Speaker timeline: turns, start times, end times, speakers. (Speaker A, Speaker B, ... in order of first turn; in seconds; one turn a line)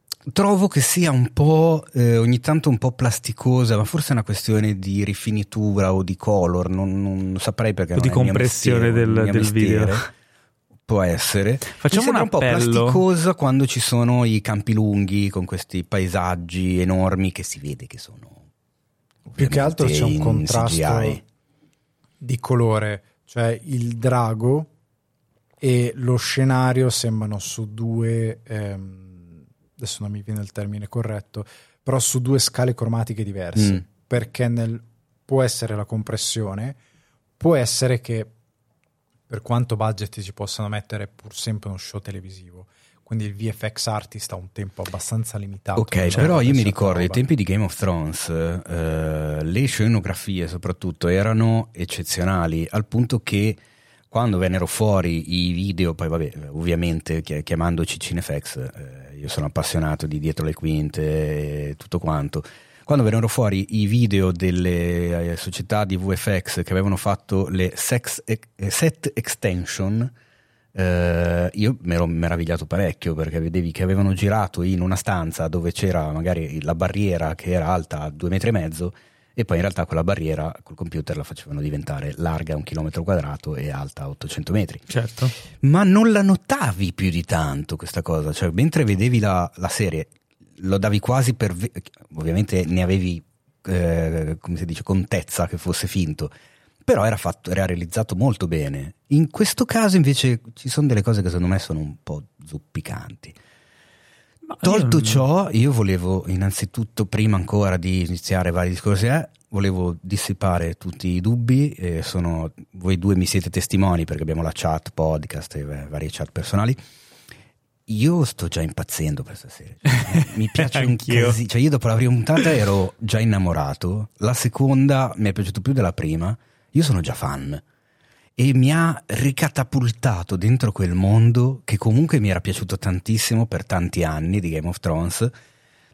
Speaker A: 0.3-10.0
Speaker B: 8.0-10.0
Speaker A: 10.9-18.4
Speaker B: 11.8-13.0
Speaker C: 19.3-21.2
Speaker A: 19.4-21.2
Speaker C: 22.2-24.7
Speaker C: 25.6-36.8
Speaker A: 33.6-33.8
Speaker C: 37.4-38.3
Speaker C: 39.3-47.2
Speaker A: 45.8-70.1
Speaker A: 70.7-84.9
Speaker B: 84.9-85.3
Speaker A: 85.6-96.3
Speaker A: 96.8-103.4
Speaker B: 104.5-105.2
Speaker A: 104.6-116.8
Speaker A: 117.9-127.6
Speaker B: 119.9-121.4
Speaker A: 128.4-135.3